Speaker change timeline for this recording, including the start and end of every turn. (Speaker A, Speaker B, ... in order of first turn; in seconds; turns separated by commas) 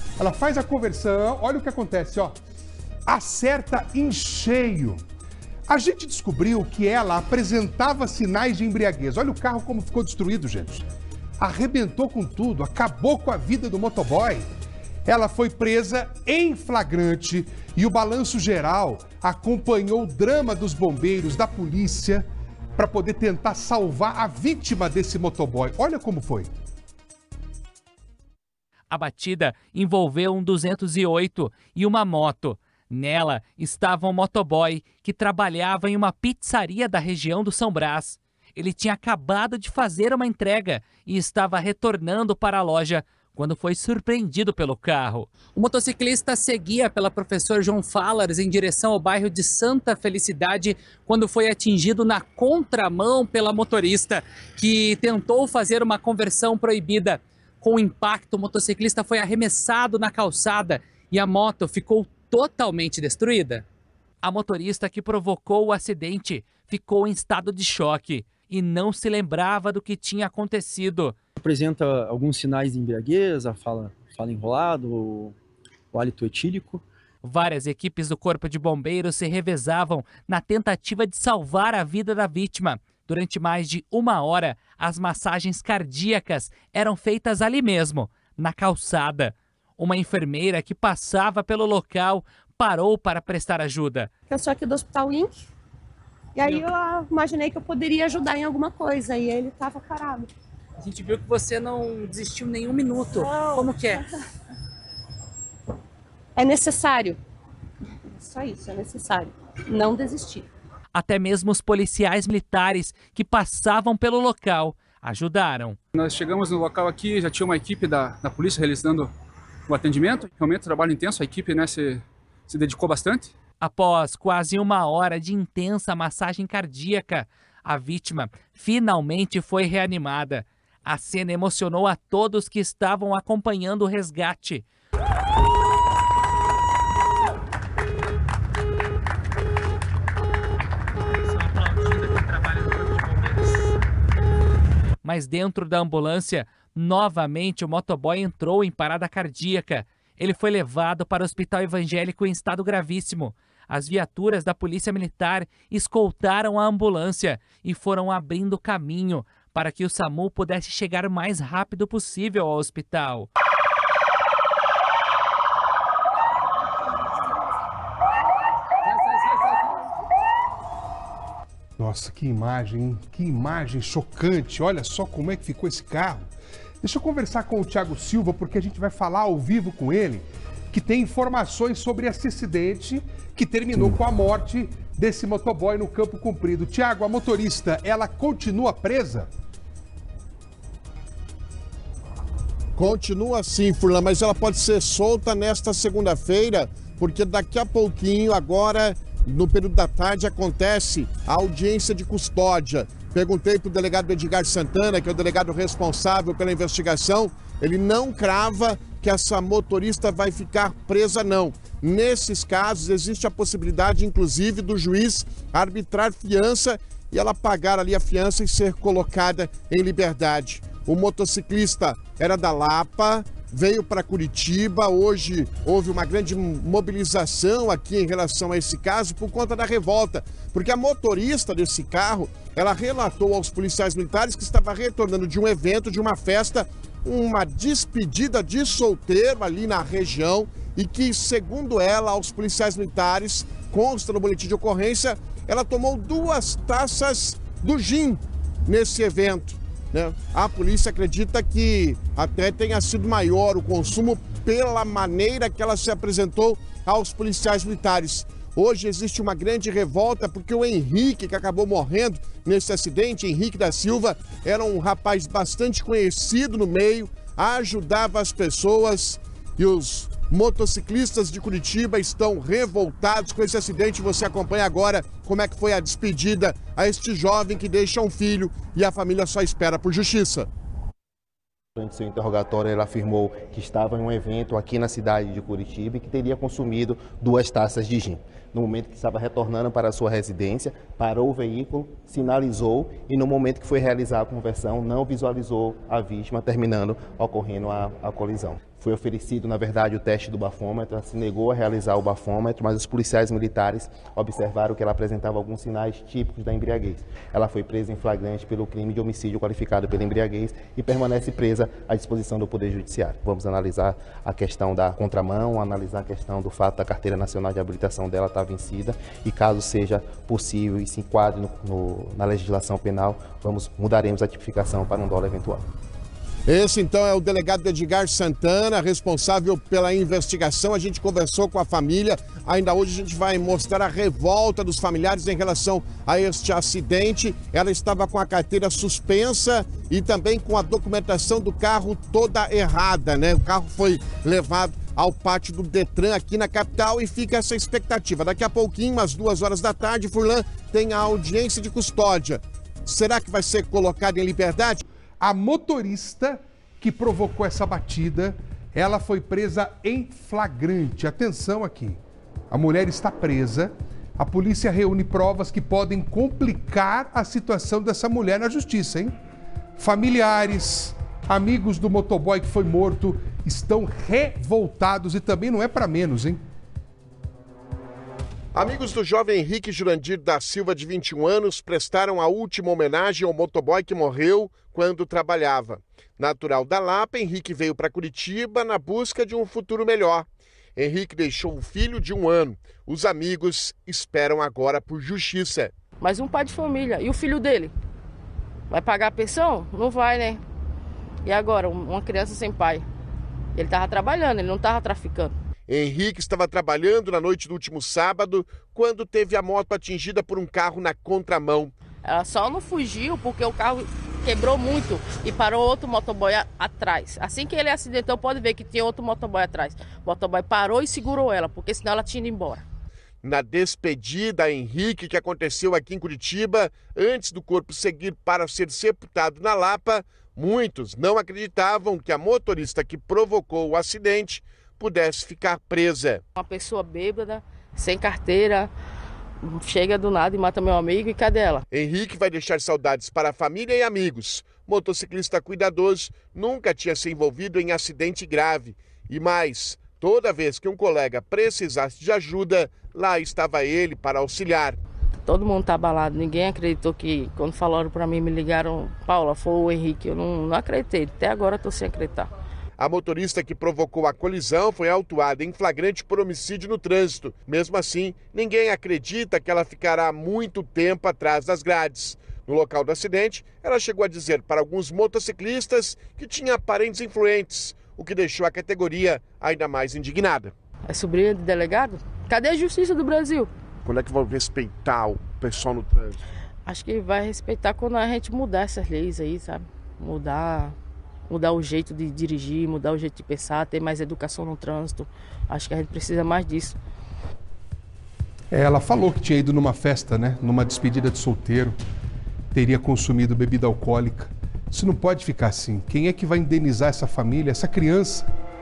Speaker A: 0.2-2.4, Speaker A: 3.1-5.0, Speaker A: 5.7-10.8, Speaker A: 11.4-14.4, Speaker A: 15.1-26.5, Speaker B: 28.9-63.6, Speaker B: 64.2-71.1, Speaker C: 71.4-75.3, Speaker C: 75.9-76.8, Speaker B: 77.2-94.1, Speaker D: 94.3-95.5, Speaker D: 96.4-100.3, Speaker B: 100.8-104.0, Speaker D: 103.2-103.9, Speaker D: 106.3-107.2, Speaker D: 108.2-110.5, Speaker B: 110.9-115.8, Speaker E: 115.9-119.1, Speaker E: 119.7-123.3, Speaker B: 123.6-134.7, Speaker B: 141.2-143.7, Speaker B: 145.0-163.3, Speaker E: 169.1-169.5, Speaker A: 171.8-176.3, Speaker A: 176.8-189.3, Speaker F: 192.8-280.5, Speaker G: 281.8-325.6, Speaker F: 326.4-354.8, Speaker A: 355.2-362.0, Speaker A: 362.5-369.1, Speaker A: 369.8-376.4, Speaker F: 378.5-395.7, Speaker H: 396.0-397.7, Speaker H: 398.7-400.4, Speaker H: 401.2-402.8, Speaker H: 403.5-405.3, Speaker F: 405.7-411.7, Speaker H: 412.0-422.6, Speaker F: 423.2-436.2, Speaker H: 436.4-438.7, Speaker H: 439.4-441.6, Speaker F: 441.7-454.8, Speaker H: 455.2-462.3, Speaker F: 462.8-480.5, Speaker H: 480.9-483.5, Speaker F: 483.8-486.2, Speaker H: 486.7-490.7, Speaker H: 491.3-496.8, Speaker A: 498.5-501.8, Speaker A: 502.5-508.3